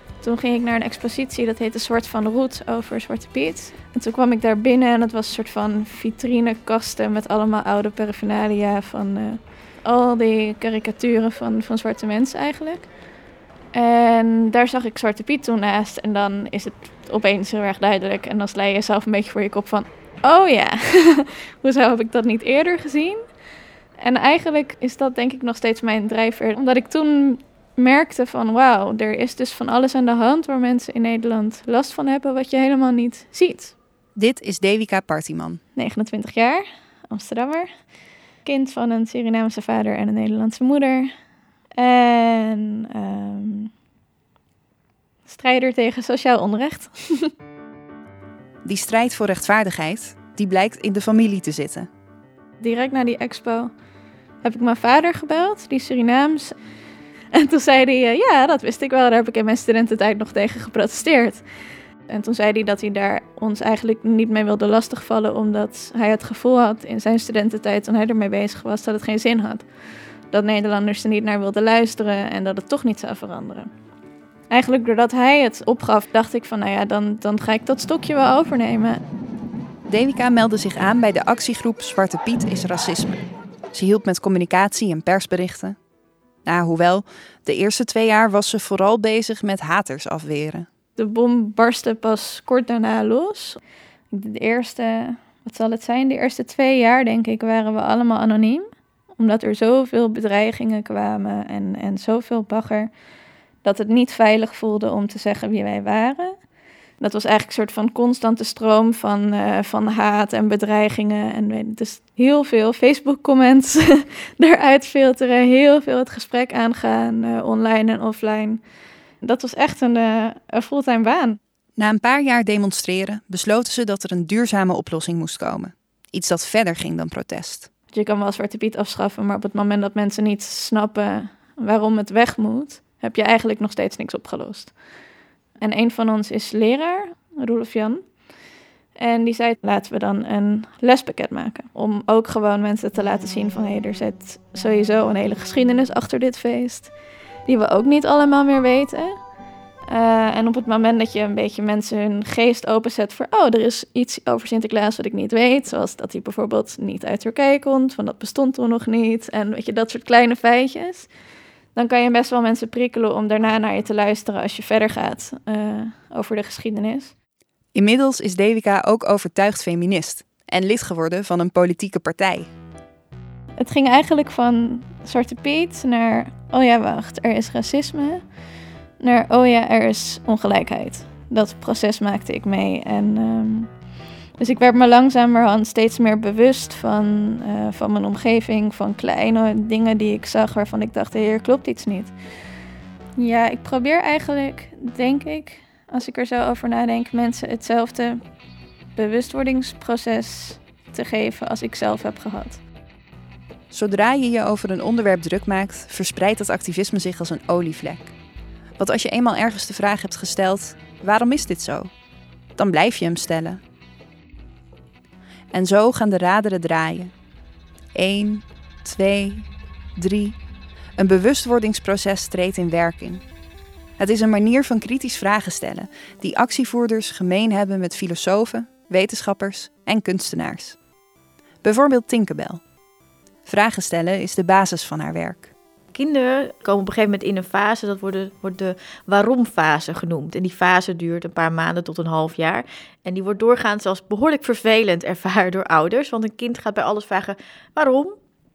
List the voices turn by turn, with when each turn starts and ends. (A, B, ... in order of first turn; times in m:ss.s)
0:00.2-0:12.9 A
0:13.7-0:23.2 A
0:24.0-0:33.7 A
0:34.2-0:35.6 B
0:35.8-0:37.7 A
0:38.4-0:41.1 A
0:41.8-0:43.7 A
0:45.2-0:47.3 A
0:48.6-0:51.9 B
0:52.6-0:53.7 A
0:54.4-0:56.5 A
0:57.3-1:01.4 A
1:02.1-1:09.7 A
1:10.3-1:13.7 A
1:14.5-1:19.0 A
1:19.9-1:25.8 B
1:26.4-1:30.7 B
1:31.0-1:33.6 A
1:34.1-1:42.9 A
1:43.6-1:46.4 A
1:47.0-1:58.6 A
1:59.2-2:01.4 A
2:01.8-2:07.7 B
2:07.9-2:14.8 A
2:15.6-2:18.1 A
2:19.0-2:26.9 A
2:27.4-2:29.2 A
2:29.9-2:41.1 A
2:41.7-2:47.1 A
2:47.7-2:52.5 B
2:53.6-2:58.2 A
2:59.0-3:03.7 A
3:04.4-3:12.1 A
3:13.2-3:18.2 A
3:18.9-3:22.6 A
3:23.7-3:28.1 B
3:28.8-3:31.9 B
3:32.6-3:33.6 B
3:35.5-3:37.1 B
3:37.9-3:40.4 B
3:41.0-3:43.2 B
3:44.0-3:50.8 B
3:51.6-3:52.6 B
3:53.4-3:55.5 B
3:55.9-4:08.2 C